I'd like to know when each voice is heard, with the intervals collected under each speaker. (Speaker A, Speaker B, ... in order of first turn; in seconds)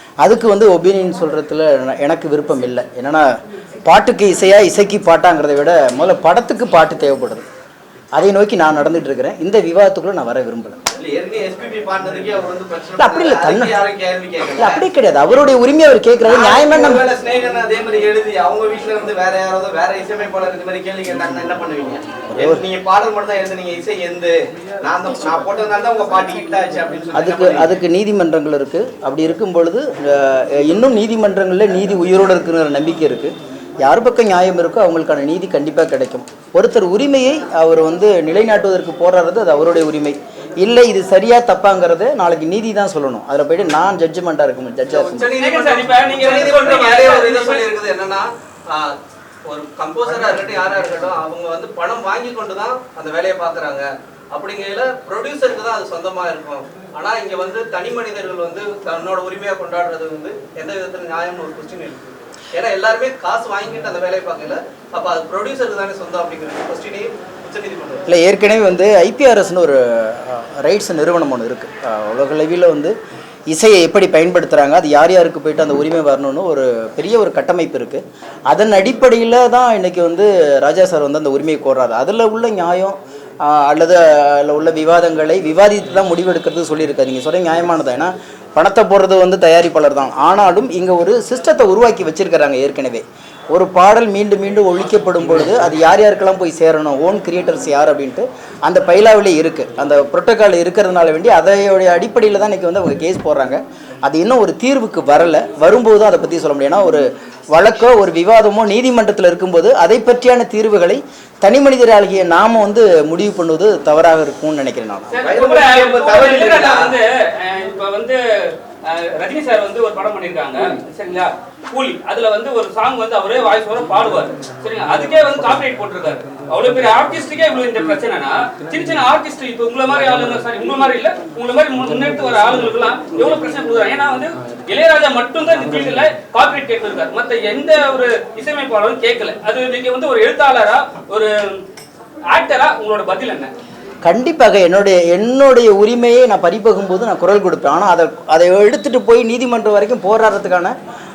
Speaker A: 0.2-3.2, 3.8-7.4, 8.1-10.8, 12.9-13.8, 14.6-17.1, 22.3-22.6, 27.1-45.3, 68.1-72.9, 73.5-115.1, 144.0-150.8
Speaker B: 10.9-14.8, 16.2-27.7, 44.9-68.0, 115.2-117.0
Speaker C: 45.4-47.6, 115.1-118.2, 118.9-141.3, 142.3-143.5